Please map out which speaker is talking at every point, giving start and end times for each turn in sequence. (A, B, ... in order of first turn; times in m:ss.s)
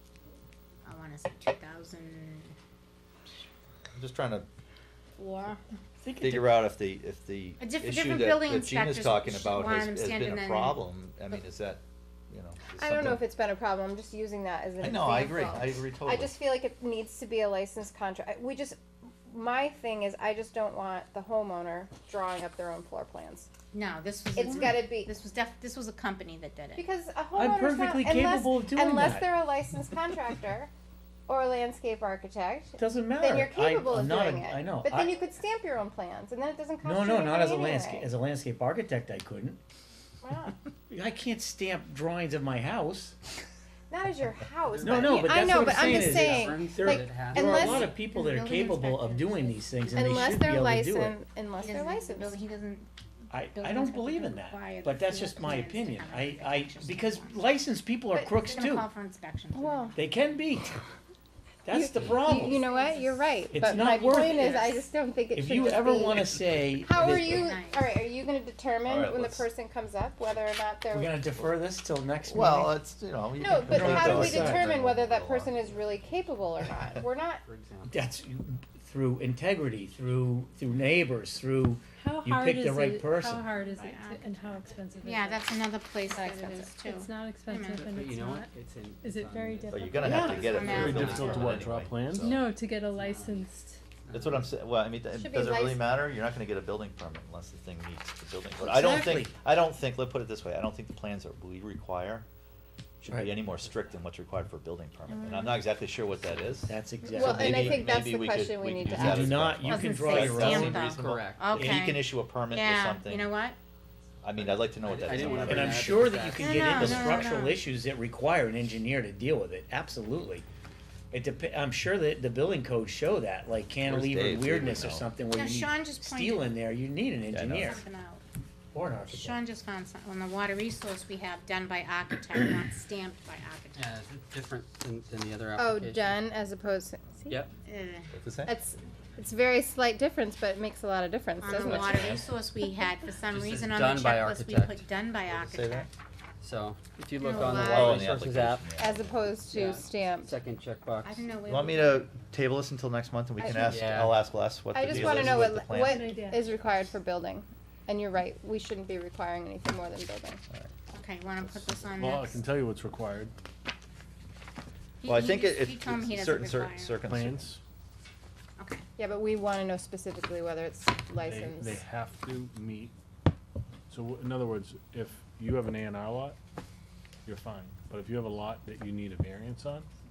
0:00.8-0:02.5 A
0:03.9-0:04.5 B
0:05.2-0:05.6 C
0:06.0-0:06.6 D
0:06.1-0:13.3 B
0:07.6-0:10.8 A
0:12.7-0:23.5 C
0:14.8-0:16.5 B
0:23.7-0:26.8 A
0:24.4-0:25.1 C
0:26.8-0:30.7 C
0:27.3-0:29.4 D
0:31.3-0:38.1 C
0:32.8-0:35.1 D
0:36.8-0:39.6 D
0:40.2-0:40.6 C
0:40.9-0:43.1 D
0:43.9-0:48.0 C
0:44.6-0:47.9 E
0:44.8-0:51.2 D
0:47.4-0:50.5 A
0:49.9-0:52.4 C
0:51.6-0:57.4 A
0:53.3-0:58.9 D
0:58.1-0:58.6 C
0:58.4-1:00.0 A
0:59.5-0:59.9 C
0:59.9-1:00.8 D
1:01.6-1:02.6 D
1:01.7-1:11.2 C
1:02.0-1:04.8 A
1:03.5-1:04.6 D
1:05.3-1:07.5 D
1:06.9-1:07.9 A
1:08.8-1:09.5 B
1:10.9-1:12.8 D
1:11.3-1:11.6 B
1:12.2-1:15.6 B
1:13.4-1:17.4 C
1:13.7-1:14.7 D
1:14.4-1:16.0 E
1:17.4-1:18.1 E
1:17.9-1:23.5 D
1:22.0-1:25.5 F
1:23.5-1:24.4 A
1:25.0-1:27.8 A
1:26.1-1:26.6 C
1:26.6-1:28.5 F
1:27.7-1:31.5 E
1:29.0-1:30.5 F
1:29.7-1:32.5 B
1:30.0-1:30.5 D
1:30.5-1:31.6 A
1:30.6-1:32.3 G
1:32.2-1:33.8 F
1:32.9-1:33.5 E
1:34.0-1:34.5 E
1:34.1-1:42.3 B
1:35.1-1:35.8 C
1:38.6-1:39.3 D
1:43.0-1:53.3 B
1:45.1-1:45.6 A
1:46.7-1:47.9 D
1:47.1-1:49.3 C
1:48.9-1:50.9 D
1:49.6-1:53.6 A
1:49.9-1:51.4 E
1:54.2-1:55.9 B
1:54.8-1:57.2 E
1:55.4-2:00.4 D
1:56.4-1:57.6 A
2:01.1-2:07.8 D
2:03.8-2:05.1 B
2:05.3-2:06.5 A
2:07.3-2:07.8 B
2:07.6-2:08.2 A
2:08.7-2:09.4 D
2:09.1-2:13.9 A
2:13.7-2:16.2 E
2:15.6-2:17.4 C
2:17.6-2:18.1 A
2:18.1-2:18.6 B
2:18.5-2:22.2 C
2:21.4-2:25.9 A
2:21.6-2:22.2 E
2:23.3-2:24.8 E
2:25.3-2:25.9 B
2:26.4-2:28.7 E
2:27.2-2:28.1 C
2:27.6-2:29.4 B
2:28.7-2:30.3 C
2:29.4-2:31.3 E
2:31.0-2:32.1 A
2:31.4-2:36.0 B
2:33.4-2:34.1 C
2:33.6-2:34.2 E
2:34.7-2:40.4 C
2:35.7-2:36.4 F
2:40.9-2:42.4 A
2:41.4-2:41.9 B
2:42.0-2:43.3 G
2:45.0-2:47.0 A
2:45.0-2:47.6 B
2:47.1-2:47.6 G
2:48.6-2:48.8 A
2:49.0-2:51.8 C
2:51.2-2:52.9 G
2:53.9-2:56.4 G
2:57.2-2:59.9 G